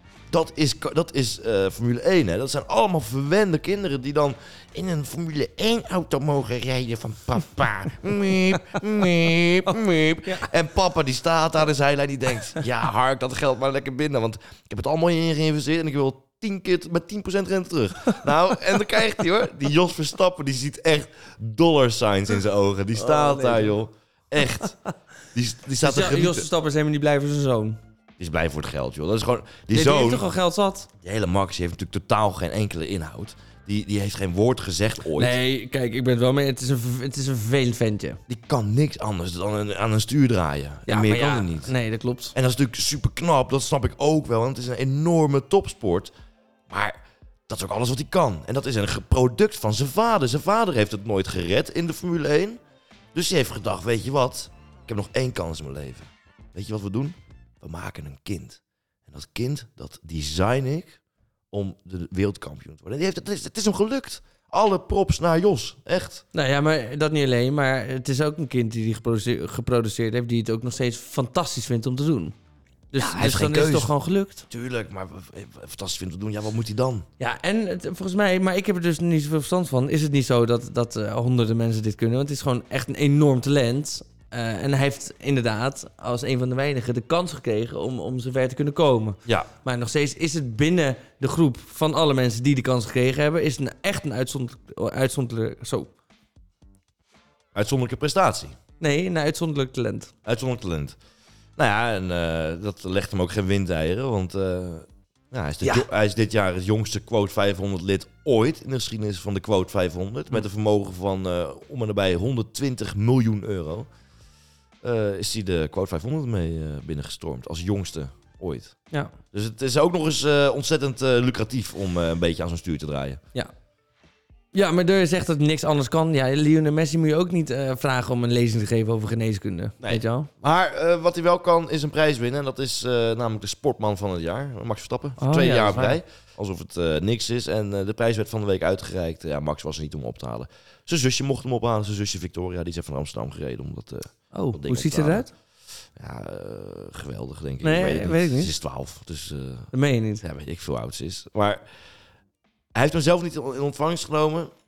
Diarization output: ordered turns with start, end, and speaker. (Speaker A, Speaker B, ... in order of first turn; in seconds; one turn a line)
Speaker A: 0.3-24.7
Speaker B: 23.0-23.8
Speaker A: 25.3-26.5
Speaker B: 25.8-27.8
Speaker A: 28.2-30.3
Speaker B: 29.7-30.9
Speaker A: 31.0-35.4
Speaker B: 35.2-38.2
Speaker A: 38.3-41.7
Speaker B: 40.9-42.4
Speaker A: 42.3-46.1
Speaker A: 46.7-52.6
Speaker A: 53.1-61.0
Speaker A: 61.5-66.2
Speaker B: 66.3-72.3
Speaker B: 72.9-74.5
Speaker A: 73.0-73.9
Speaker A: 74.5-77.1
Speaker B: 77.2-95.9
Speaker A: 97.5-98.6
Speaker B: 98.8-100.1
Speaker A: 100.2-101.0
Speaker A: 101.6-113.9
Speaker A: 114.8-118.8
Speaker A: 119.3-123.2
Speaker B: 124.5-130.3
Speaker A: 129.8-145.3
Speaker B: 135.2-136.0
Speaker B: 144.3-145.3
Speaker A: 146.0-151.6
Speaker B: 147.6-148.5
Speaker B: 149.7-150.2
Speaker A: 152.8-154.5